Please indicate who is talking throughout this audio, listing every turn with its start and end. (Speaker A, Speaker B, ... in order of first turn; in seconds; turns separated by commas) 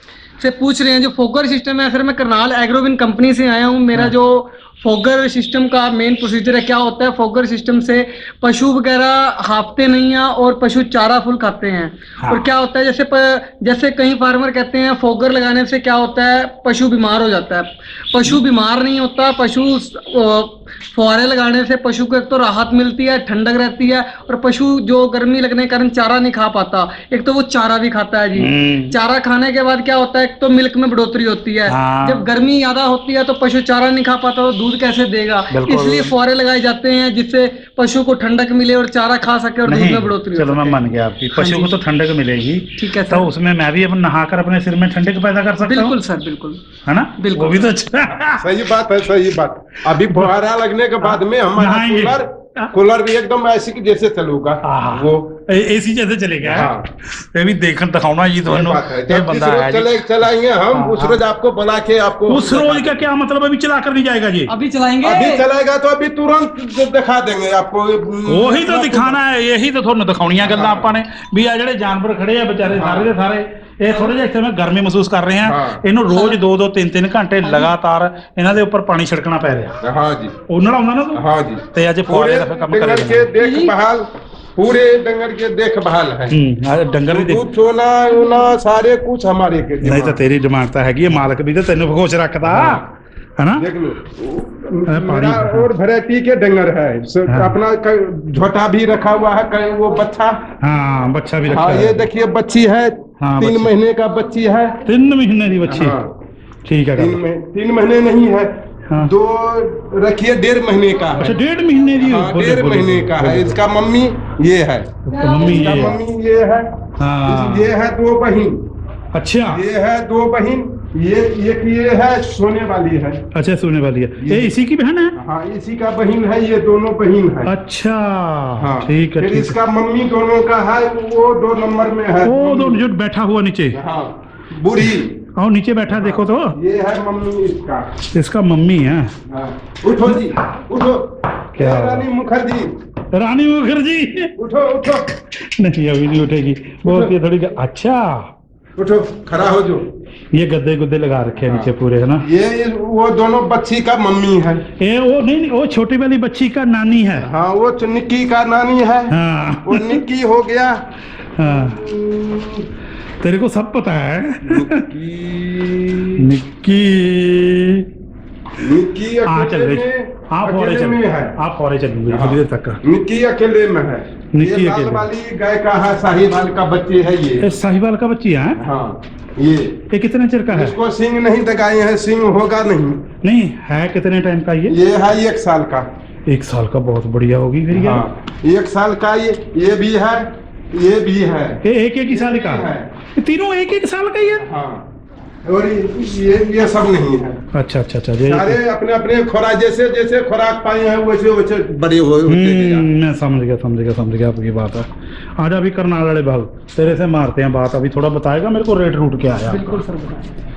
Speaker A: 0.4-40.8, Speaker B: 12.2-12.5, Speaker B: 28.4-29.0, Speaker B: 31.7-32.2, Speaker B: 35.5-36.1, Speaker B: 39.6-45.9, Speaker A: 41.3-41.8, Speaker A: 42.8-43.3, Speaker A: 45.6-46.6, Speaker B: 46.9-48.5, Speaker A: 47.2-47.7, Speaker C: 48.2-55.3, Speaker B: 51.5-52.7, Speaker B: 54.6-60.0, Speaker C: 56.4-56.9, Speaker C: 58.5-63.0, Speaker B: 60.7-61.2, Speaker B: 62.3-64.5, Speaker A: 64.5-65.4, Speaker C: 65.0-69.2, Speaker B: 68.3-79.8, Speaker C: 70.4-70.9, Speaker C: 72.7-73.1, Speaker C: 75.4-75.8, Speaker C: 79.8-80.4, Speaker B: 80.5-83.3, Speaker C: 81.1-86.4, Speaker A: 83.4-83.7, Speaker B: 86.3-87.4, Speaker C: 87.1-90.2, Speaker B: 89.8-93.7, Speaker C: 92.5-92.8, Speaker C: 93.5-100.4, Speaker B: 94.9-95.7, Speaker B: 97.3-97.5, Speaker B: 100.6-102.0, Speaker C: 101.5-104.8, Speaker B: 103.2-103.7, Speaker B: 104.8-106.0, Speaker C: 105.7-106.1, Speaker B: 106.6-107.2, Speaker C: 107.0-111.3, Speaker B: 111.2-113.6, Speaker C: 112.0-116.7, Speaker B: 115.0-116.0, Speaker A: 115.1-115.9, Speaker B: 117.0-117.7, Speaker C: 117.2-118.6, Speaker B: 119.1-119.6, Speaker C: 119.5-123.2, Speaker B: 123.3-125.2, Speaker C: 124.2-124.5, Speaker C: 125.2-127.5, Speaker B: 127.5-129.6, Speaker C: 128.6-132.8, Speaker B: 132.2-133.8, Speaker C: 133.7-135.2, Speaker B: 135.3-136.6, Speaker C: 135.9-137.9, Speaker B: 138.1-139.1, Speaker C: 139.3-142.7, Speaker B: 141.5-142.1, Speaker B: 143.1-144.3, Speaker C: 144.4-145.1, Speaker B: 144.9-148.3, Speaker C: 146.8-147.1, Speaker C: 148.8-149.8, Speaker B: 150.3-152.2, Speaker C: 151.4-151.7, Speaker C: 152.2-154.6, Speaker B: 154.8-157.3, Speaker C: 157.2-159.1, Speaker B: 159.1-160.0, Speaker C: 159.6-160.8, Speaker B: 161.3-161.8, Speaker C: 161.4-162.7, Speaker B: 163.2-164.9, Speaker C: 164.4-166.3, Speaker B: 166.2-167.9, Speaker C: 168.6-171.4, Speaker B: 169.3-172.8, Speaker C: 172.1-177.5, Speaker B: 174.3-175.1, Speaker B: 177.4-178.6, Speaker C: 178.6-179.8, Speaker B: 179.9-180.8, Speaker C: 180.5-183.1, Speaker B: 183.2-184.8, Speaker C: 184.7-185.9, Speaker B: 186.3-188.1, Speaker C: 187.7-192.9, Speaker B: 191.6-194.4, Speaker C: 194.4-194.8, Speaker C: 195.4-197.4, Speaker B: 197.5-198.6, Speaker C: 198.2-202.9, Speaker B: 202.3-209.8, Speaker A: 209.5-210.3